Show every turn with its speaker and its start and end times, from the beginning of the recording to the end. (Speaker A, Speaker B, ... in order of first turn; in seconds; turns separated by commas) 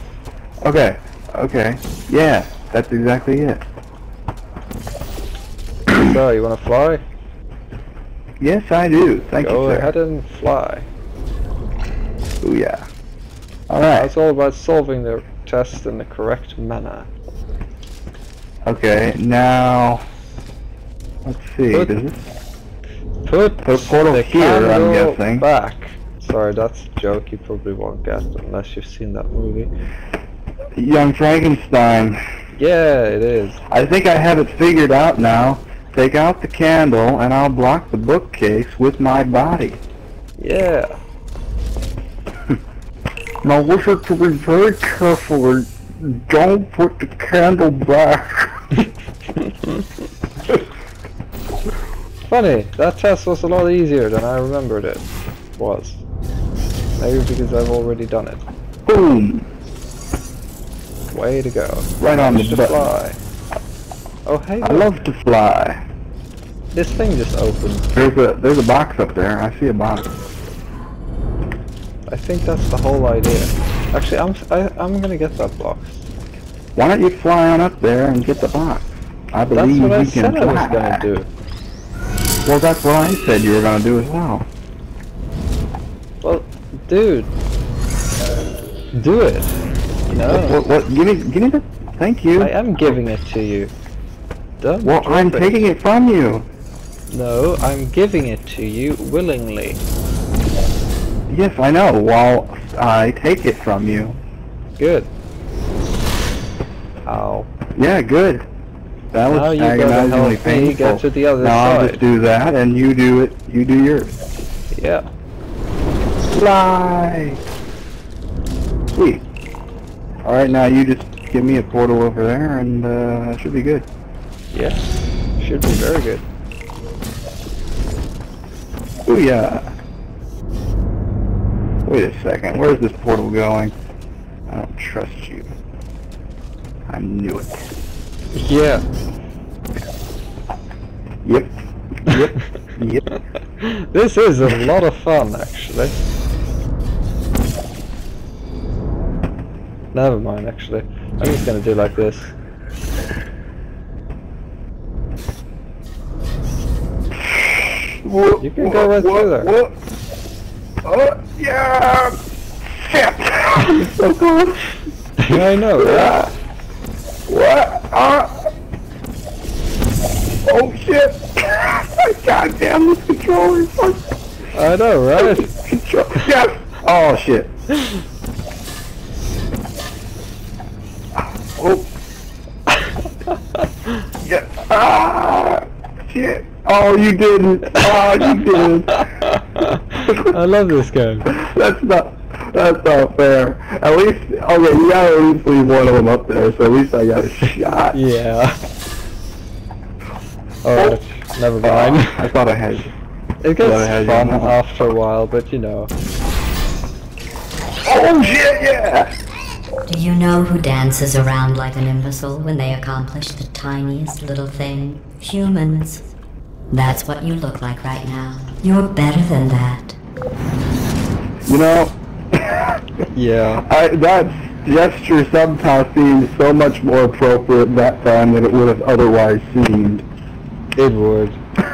Speaker A: 0.6-3.6, Speaker B: 5.9-7.0, Speaker A: 8.4-9.9, Speaker B: 9.4-10.9, Speaker A: 12.4-12.9, Speaker A: 13.7-14.1, Speaker B: 13.9-17.1, Speaker A: 18.6-20.0, Speaker A: 21.2-22.3, Speaker B: 23.2-29.7, Speaker A: 23.6-25.5, Speaker A: 30.7-32.2, Speaker B: 32.5-33.6, Speaker A: 33.7-39.8, Speaker B: 40.4-41.0, Speaker A: 43.4-48.5, Speaker B: 49.4-49.9, Speaker B: 52.2-55.0, Speaker B: 55.6-56.0, Speaker B: 57.0-58.4, Speaker A: 58.9-59.5, Speaker B: 61.1-63.2, Speaker A: 62.0-62.9, Speaker B: 64.2-65.0, Speaker A: 64.6-65.8, Speaker B: 66.7-67.9, Speaker A: 67.9-70.1, Speaker B: 72.1-76.1, Speaker A: 76.7-81.1, Speaker B: 79.5-81.3, Speaker A: 82.4-84.5, Speaker B: 86.2-87.3, Speaker B: 88.9-90.6, Speaker A: 90.3-93.0, Speaker B: 92.4-93.7, Speaker B: 94.6-95.6, Speaker A: 94.8-96.5, Speaker B: 97.1-99.8, Speaker A: 101.3-104.2, Speaker B: 104.8-105.1, Speaker B: 107.0-107.5, Speaker A: 107.8-108.5, Speaker A: 109.1-114.2, Speaker B: 109.3-112.0, Speaker B: 114.7-115.1, Speaker A: 116.3-117.4, Speaker A: 118.9-119.2, Speaker A: 120.2-123.8, Speaker B: 124.5-124.8, Speaker B: 125.4-126.2, Speaker A: 129.1-129.7, Speaker A: 131.8-133.7, Speaker A: 134.5-135.5, Speaker A: 136.9-137.7, Speaker B: 138.3-138.8, Speaker A: 141.2-141.5, Speaker A: 142.1-143.0, Speaker B: 142.1-142.4, Speaker B: 143.1-146.0, Speaker B: 149.9-152.3, Speaker A: 157.2-159.7, Speaker B: 158.4-159.5, Speaker A: 160.8-164.7, Speaker B: 165.2-166.2, Speaker A: 165.3-166.3, Speaker A: 167.3-168.5, Speaker A: 170.4-174.0, Speaker B: 174.5-175.5, Speaker A: 175.2-177.5, Speaker A: 181.6-181.9, Speaker A: 184.2-189.1, Speaker B: 188.9-191.3, Speaker A: 190.0-190.3, Speaker A: 191.3-198.0, Speaker B: 197.4-198.6, Speaker B: 200.6-202.3, Speaker A: 200.7-201.0, Speaker A: 201.6-202.9, Speaker B: 203.4-205.9, Speaker A: 203.6-204.9, Speaker A: 207.8-209.1, Speaker C: 209.8-216.1, Speaker C: 216.7-220.0, Speaker A: 221.4-223.0, Speaker B: 223.1-223.6, Speaker A: 223.6-230.0, Speaker B: 230.8-231.4